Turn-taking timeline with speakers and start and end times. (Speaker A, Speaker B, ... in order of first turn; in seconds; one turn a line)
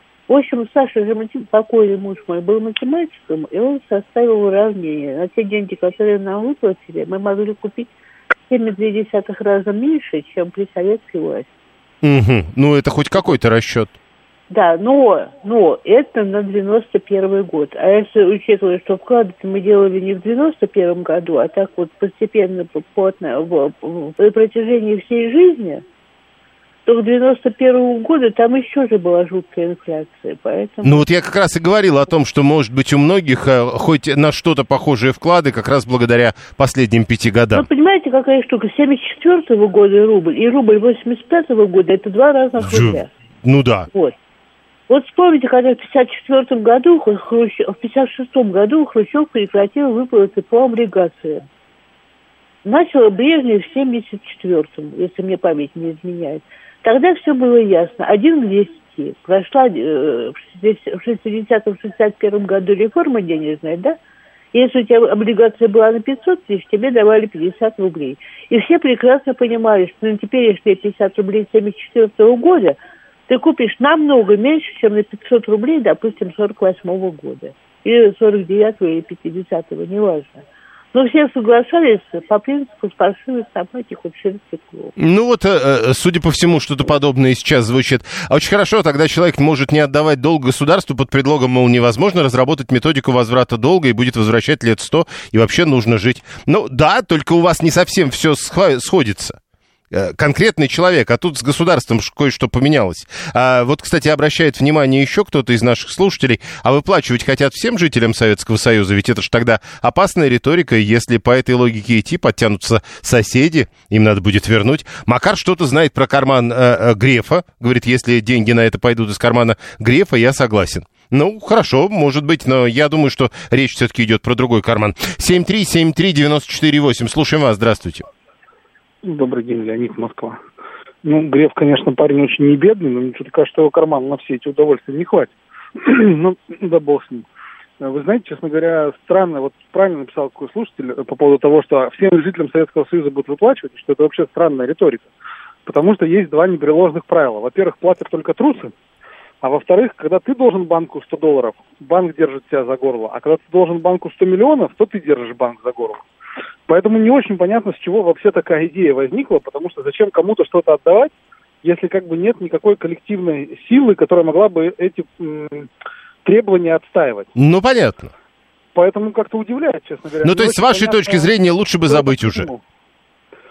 Speaker A: 0.3-7.9
Speaker A: 8.5-11.5
Speaker B: 12.0-13.9
Speaker A: 14.5-25.8
Speaker A: 26.9-31.0
Speaker B: 30.8-37.7
Speaker A: 37.5-43.1
Speaker B: 42.6-43.9
Speaker A: 44.9-51.5
Speaker A: 52.6-64.0
Speaker A: 64.5-80.4
Speaker A: 80.9-84.9
Speaker B: 85.0-99.4
Speaker B: 99.9-128.1
Speaker C: 129.0-130.4
Speaker C: 131.0-137.3
Speaker C: 137.8-145.1
Speaker C: 145.7-148.7
Speaker C: 149.4-156.0
Speaker C: 156.7-165.7
Speaker C: 166.2-167.3
Speaker B: 167.4-168.1
Speaker C: 168.8-171.3
Speaker B: 170.2-172.5
Speaker C: 171.9-172.6